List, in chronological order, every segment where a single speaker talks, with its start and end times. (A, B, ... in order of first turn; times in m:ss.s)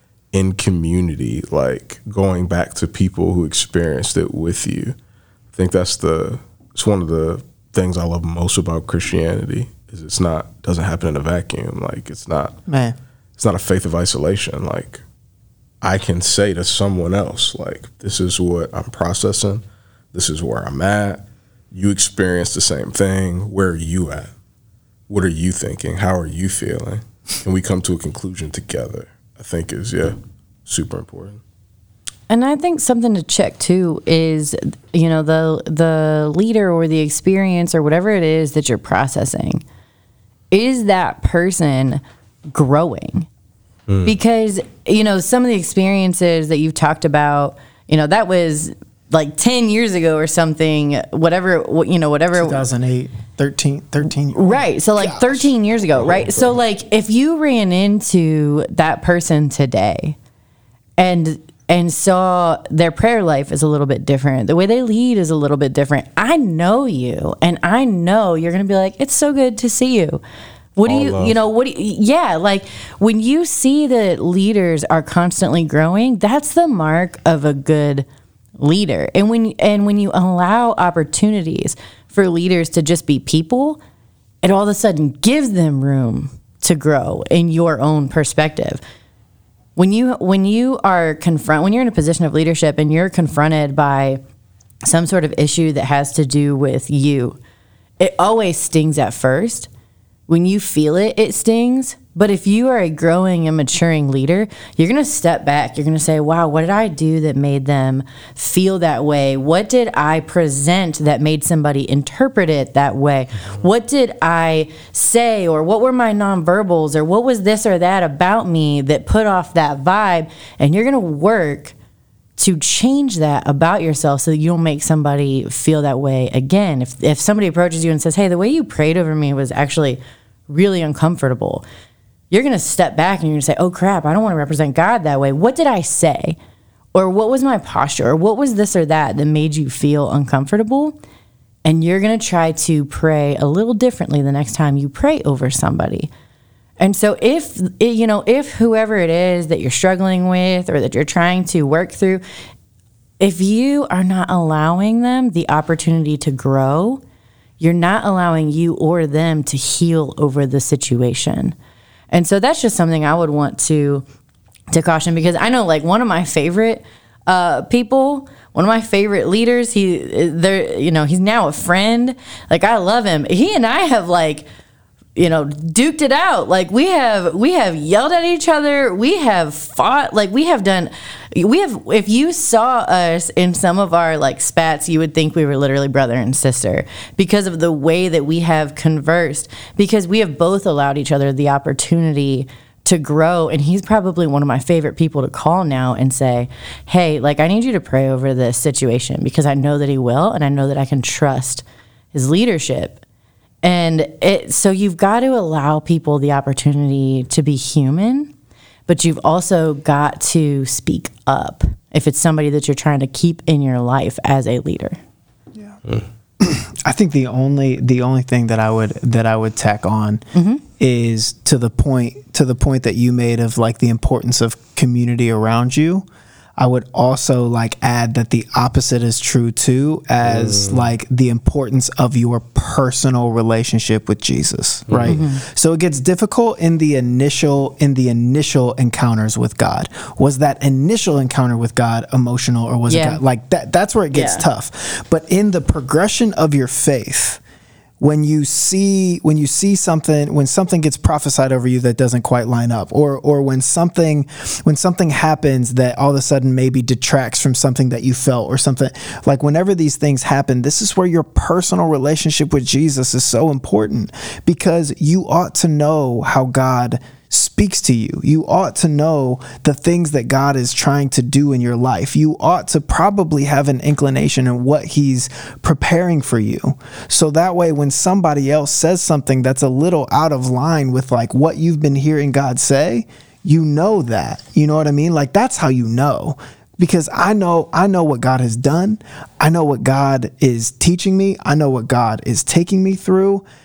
0:00.3-0:05.0 A
0:05.5-0:12.6 A
0:12.7-0:13.0 B
0:13.4-0:15.0 A
0:15.8-0:24.3 A
0:25.1-0:31.4 A
0:32.3-0:39.6 C
0:40.5-0:43.3 C
0:43.9-0:44.2 A
0:44.0-0:52.6 C
0:52.3-0:55.5 B
0:54.3-1:00.2 C
0:56.0-0:56.4 A
1:01.0-1:10.2 C
1:10.8-1:18.1 C
1:10.8-1:11.4 A
1:18.6-1:23.8 C
1:24.4-1:28.8 C
1:29.8-1:34.2 C
1:34.8-1:37.4 C
1:38.0-1:39.7 C
1:40.3-2:01.7 C
2:02.4-2:11.6 C
2:12.3-2:16.4 C
2:16.9-2:21.0 C
2:21.6-2:26.1 C
2:26.8-2:32.2 C
2:33.2-2:37.0 C
2:37.6-2:41.6 C
2:42.1-2:44.0 C
2:44.7-2:54.5 C
2:55.2-3:23.0 C
3:23.6-3:28.3 C
3:28.9-3:35.0 C
3:36.4-3:40.2 B
3:40.3-3:40.6 C
3:40.8-3:46.1 B
3:46.6-4:07.4 B
3:50.2-3:50.9 A
3:54.9-3:55.2 A
3:55.1-3:55.4 C
4:02.9-4:03.2 C
4:04.1-4:04.5 C
4:08.0-4:53.4 B